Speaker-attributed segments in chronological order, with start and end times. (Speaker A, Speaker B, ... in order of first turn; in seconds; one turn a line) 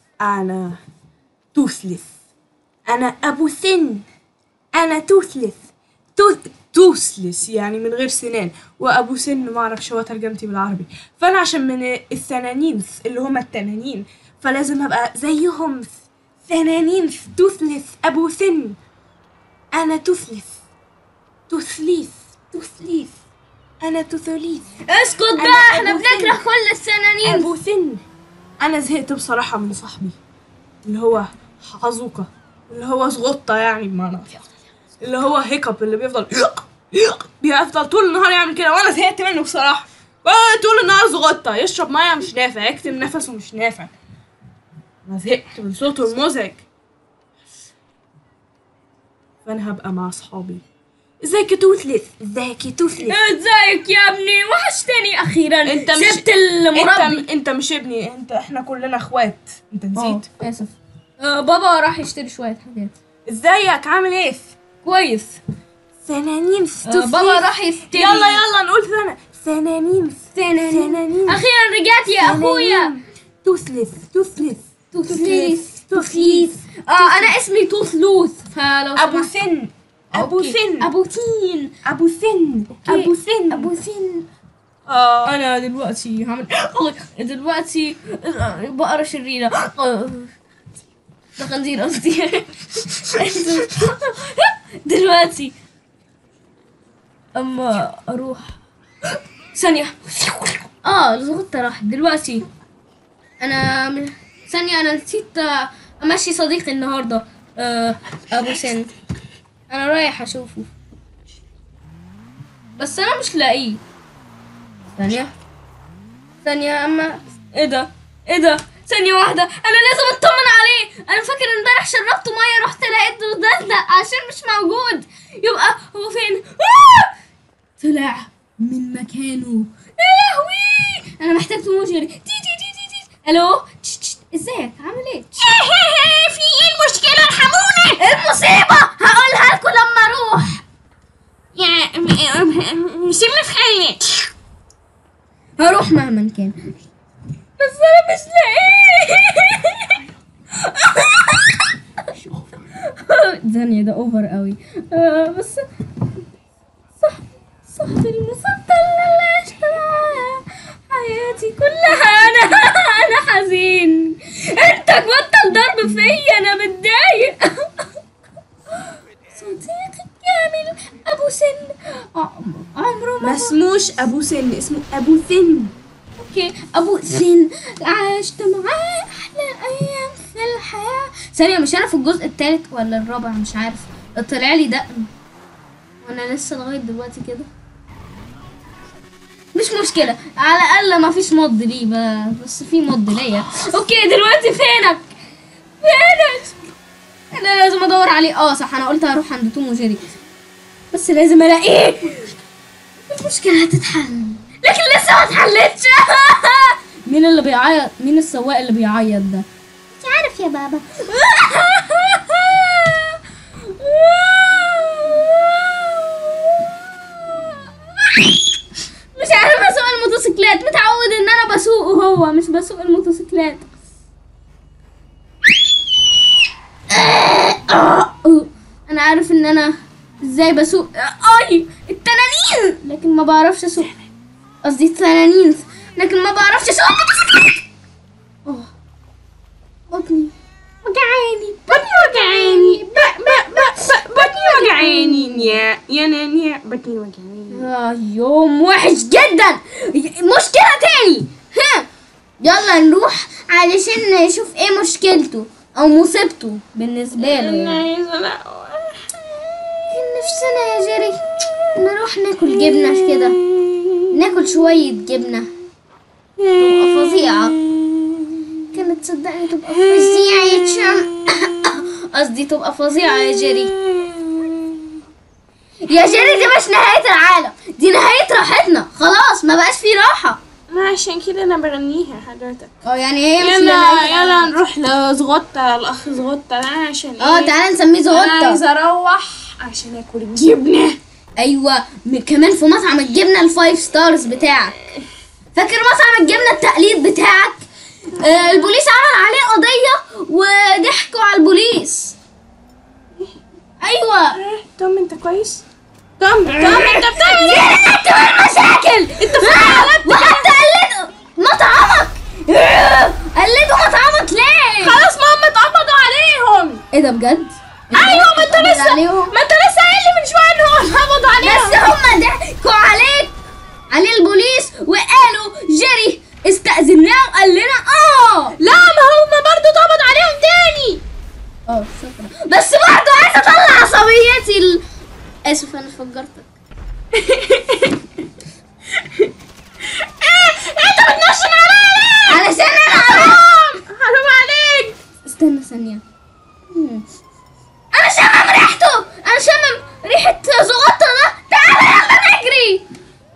Speaker A: 0.2-0.8
Speaker A: 1.5-2.1
Speaker A: 2.9-4.1
Speaker A: 4.7-5.6
Speaker A: 6.2-15.9
Speaker A: 16.5-18.8
Speaker A: 19.7-20.5
Speaker A: 21.5-22.6
Speaker B: 22.6-23.1
Speaker A: 23.8-24.7
Speaker B: 24.9-27.5
Speaker A: 25.4-26.4
Speaker A: 27.2-28.0
Speaker A: 28.6-30.2
Speaker A: 30.9-34.4
Speaker A: 35.0-43.9
Speaker A: 45.0-46.6
Speaker A: 49.5-50.6
Speaker A: 51.2-53.2
Speaker B: 53.1-57.2
Speaker A: 55.6-60.4
Speaker B: 60.0-62.9
Speaker A: 63.3-64.5
Speaker B: 64.8-65.4
Speaker A: 66.0-71.4
Speaker B: 66.8-68.4
Speaker B: 70.3-72.9
Speaker A: 72.2-77.4
Speaker B: 74.9-79.3
Speaker A: 79.0-80.9
Speaker B: 80.2-81.8
Speaker A: 81.8-83.7
Speaker B: 82.9-84.3
Speaker A: 84.9-85.3
Speaker B: 85.2-90.3
Speaker B: 91.4-95.6
Speaker B: 97.3-98.5
Speaker B: 99.5-102.5
Speaker B: 103.4-108.9
Speaker B: 109.7-110.7
Speaker B: 112.8-113.8
Speaker B: 115.0-115.3
Speaker B: 116.4-127.1
Speaker B: 127.8-135.4
Speaker A: 135.4-138.0
Speaker B: 138.0-140.6
Speaker A: 141.6-144.3
Speaker B: 145.6-146.6
Speaker B: 147.6-150.0
Speaker B: 150.6-151.7
Speaker B: 152.9-155.7
Speaker B: 157.0-167.8
Speaker B: 169.3-173.6
Speaker A: 173.2-175.7
Speaker B: 176.2-185.1
Speaker B: 186.0-187.5
Speaker B: 189.6-195.1
Speaker B: 195.8-196.6
Speaker B: 197.3-200.1
Speaker B: 200.9-202.3
Speaker B: 203.1-209.5
Speaker B: 210.0-213.2
Speaker B: 213.8-217.5
Speaker B: 219.2-223.7
Speaker B: 226.9-233.9
Speaker B: 234.6-237.6
Speaker B: 239.9-245.6
Speaker A: 241.7-247.7
Speaker B: 247.5-251.9
Speaker B: 252.4-257.9
Speaker A: 257.2-259.0
Speaker B: 259.9-261.2
Speaker B: 261.7-263.4
Speaker A: 262.6-264.2
Speaker B: 264.1-265.5
Speaker A: 266.4-268.6
Speaker B: 266.6-267.6
Speaker B: 268.7-273.7
Speaker A: 269.7-271.5
Speaker A: 273.1-275.0
Speaker B: 275.9-280.4
Speaker A: 280.7-282.7
Speaker B: 282.8-284.5
Speaker A: 283.4-287.6
Speaker B: 287.2-288.6
Speaker A: 288.1-291.0
Speaker B: 291.4-294.8
Speaker B: 295.6-302.2
Speaker A: 298.2-298.7
Speaker B: 303.8-304.4
Speaker A: 304.3-305.6
Speaker A: 306.2-307.8
Speaker B: 306.5-315.0
Speaker A: 309.2-310.5
Speaker A: 314.8-316.8
Speaker B: 316.9-319.3
Speaker A: 317.9-321.9
Speaker B: 321.4-323.4
Speaker B: 323.9-328.6
Speaker A: 328.6-331.0
Speaker B: 331.7-334.8
Speaker B: 335.4-336.5
Speaker A: 337.1-338.0
Speaker A: 340.0-345.0
Speaker B: 342.3-343.4
Speaker B: 345.2-346.0
Speaker B: 346.7-347.0
Speaker B: 347.9-352.9